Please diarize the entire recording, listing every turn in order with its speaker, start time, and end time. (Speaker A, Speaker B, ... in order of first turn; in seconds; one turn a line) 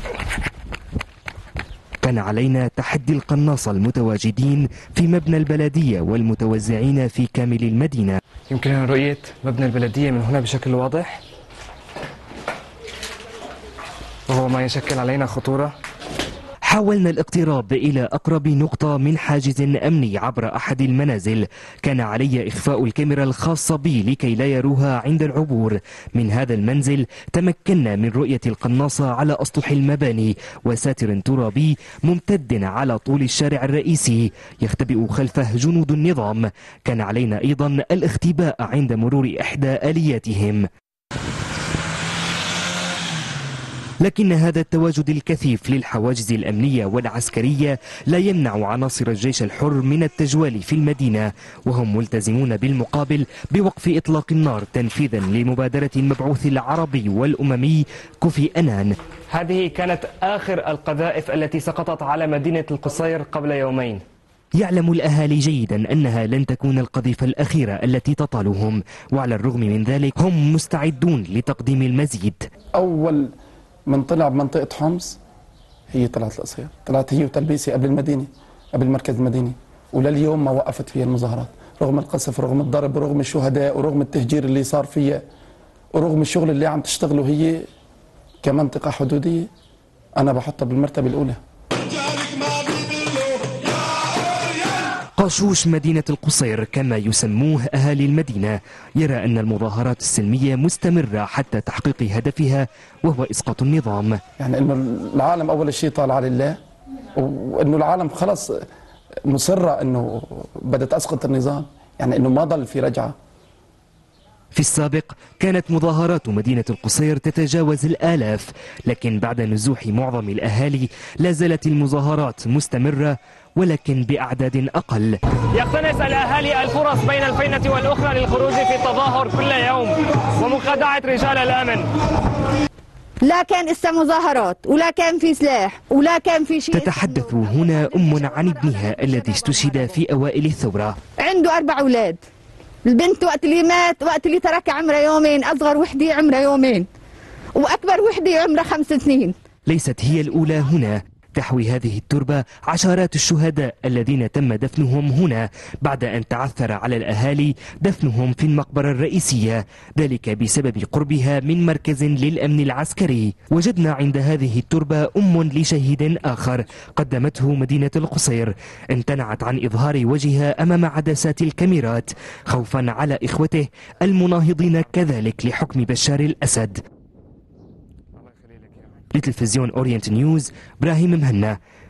Speaker A: 2.0-8.2
Speaker B: 8.5-11.2
Speaker B: 14.3-15.7
Speaker A: 16.6-40.6
Speaker A: 44.0-59.0
Speaker B: 59.3-64.0
Speaker A: 64.5-72.5
Speaker C: 72.8-73.3
Speaker C: 73.9-75.2
Speaker C: 75.9-85.2
Speaker C: 85.9-87.6
Speaker C: 88.4-89.5
Speaker C: 90.2-91.4
Speaker C: 92.4-93.0
Speaker A: 95.2-104.2
Speaker C: 104.4-106.6
Speaker C: 107.2-108.6
Speaker C: 109.3-113.1
Speaker A: 114.5-125.2
Speaker B: 125.5-131.9
Speaker D: 133.2-140.0
Speaker A: 136.7-141.0
Speaker D: 141.1-142.2
Speaker D: 142.8-146.9
Speaker D: 147.5-149.3
Speaker A: 149.7-176.8
Speaker B: 178.2-179.1
Speaker A: 179.1-181.6